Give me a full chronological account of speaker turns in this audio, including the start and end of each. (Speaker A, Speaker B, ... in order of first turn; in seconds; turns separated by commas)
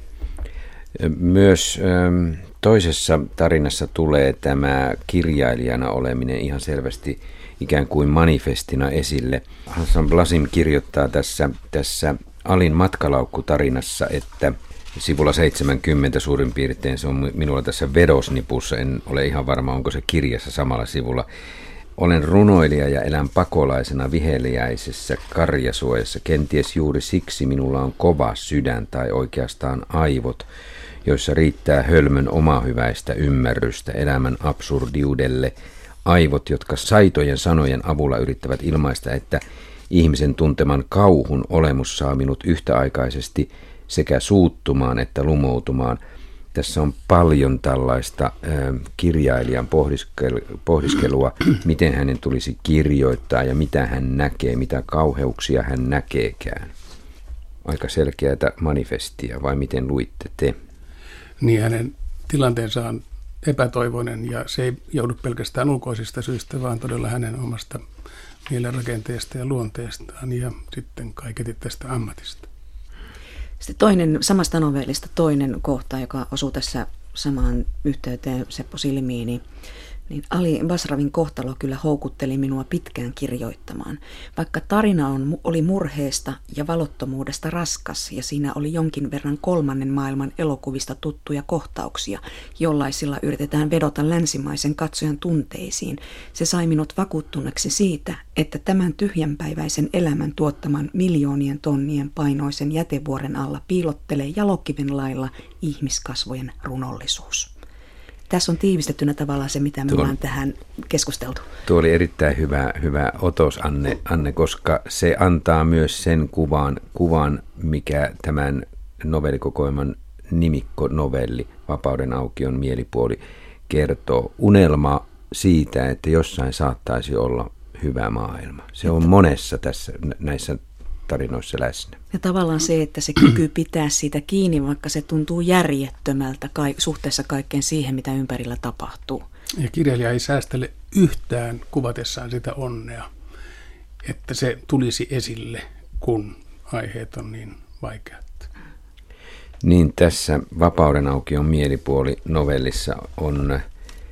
Speaker A: 0.9-21.2, Speaker A: 22.0-30.4, Speaker A: 31.0-35.5, Speaker A: 36.0-46.0, Speaker A: 46.5-56.7, Speaker A: 57.6-60.5, Speaker B: 61.4-67.8, Speaker B: 68.5-72.5, Speaker C: 73.6-79.4, Speaker C: 80.1-107.5, Speaker C: 108.3-111.5, Speaker A: 111.7-132.0, Speaker C: 132.1-139.2, Speaker B: 139.6-143.1, Speaker B: 144.0-148.5, Speaker A: 149.6-153.6